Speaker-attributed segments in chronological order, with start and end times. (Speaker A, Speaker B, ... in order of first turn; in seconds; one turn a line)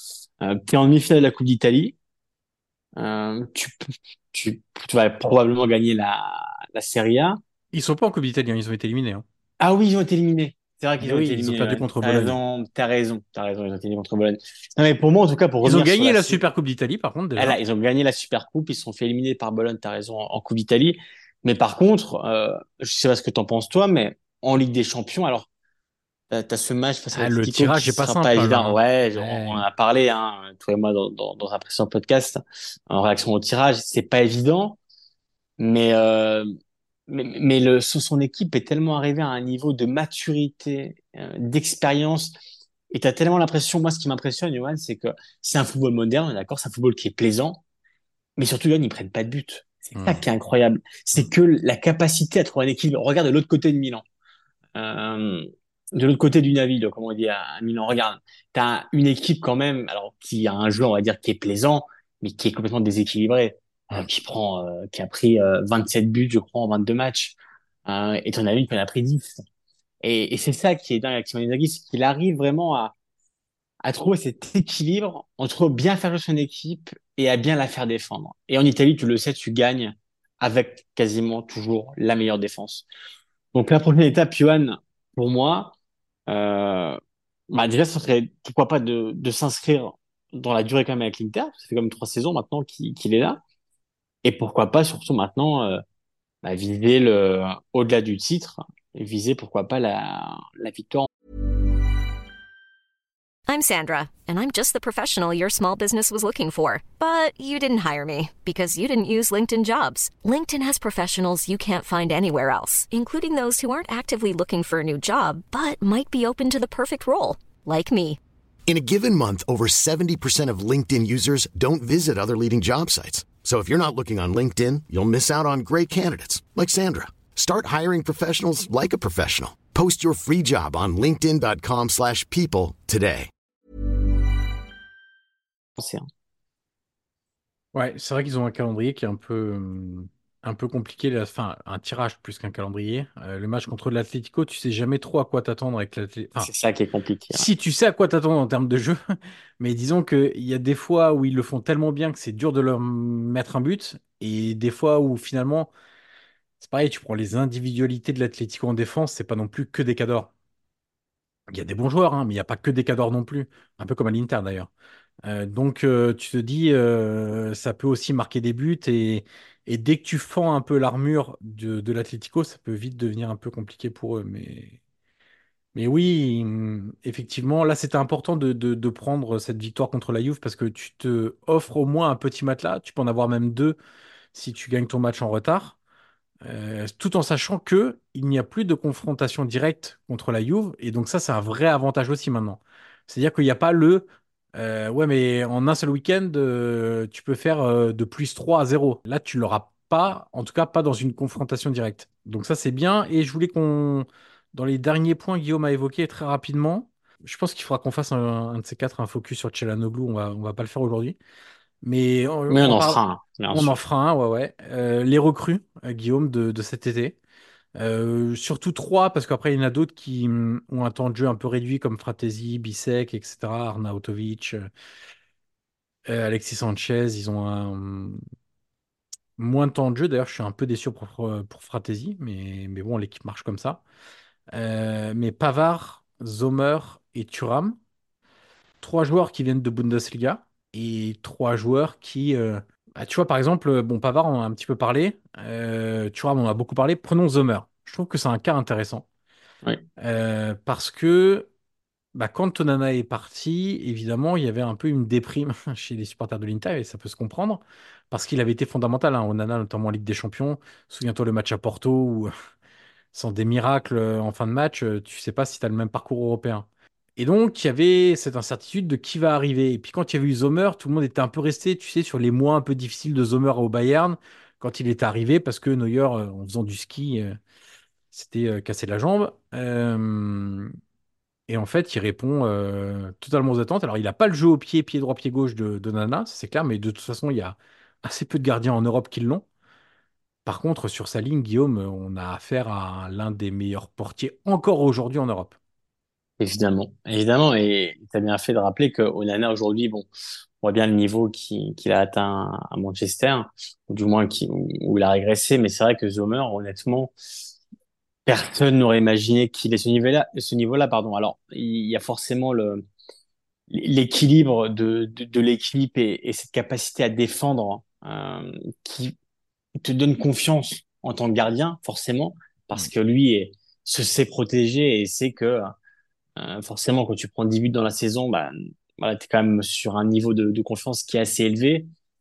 Speaker A: 0.4-1.9
Speaker A: 3.0-7.4
Speaker B: 7.7-9.2
Speaker A: 9.6-16.4
Speaker B: 11.0-12.4
Speaker B: 15.6-17.6
Speaker A: 17.4-25.5
Speaker A: 26.3-34.8
Speaker B: 27.1-29.6
Speaker A: 35.6-36.5
Speaker A: 37.1-42.4
Speaker A: 42.9-47.6
Speaker A: 48.4-54.0
Speaker B: 49.9-50.2
Speaker A: 54.7-69.4
Speaker A: 70.0-72.9
Speaker A: 73.8-82.8
Speaker A: 83.5-85.7
Speaker A: 86.3-87.0
Speaker A: 87.5-93.4
Speaker A: 94.2-95.8
Speaker A: 96.4-101.1
Speaker C: 103.5-118.2
Speaker D: 118.7-133.3
Speaker A: 135.8-136.1
Speaker B: 137.7-146.5
Speaker A: 146.4-147.5
Speaker B: 147.3-149.0
Speaker B: 149.6-155.7
Speaker B: 156.6-160.3
Speaker B: 161.5-164.7
Speaker B: 165.2-174.8
Speaker B: 175.7-183.8
Speaker B: 184.3-185.8
Speaker B: 186.4-211.2
Speaker B: 211.8-213.0
Speaker A: 212.5-213.7
Speaker B: 213.5-217.2
Speaker B: 217.8-224.7
Speaker B: 226.1-228.2
Speaker B: 229.4-233.8
Speaker B: 234.5-237.8
Speaker B: 238.8-249.1
Speaker B: 250.0-251.5
Speaker B: 252.1-262.3
Speaker B: 263.1-277.4
Speaker B: 278.1-280.7
Speaker B: 281.5-289.4
Speaker B: 290.4-295.6
Speaker A: 296.4-300.1
Speaker A: 300.6-307.1
Speaker A: 308.2-312.8
Speaker A: 313.7-319.1
Speaker A: 319.8-325.7
Speaker A: 326.4-331.9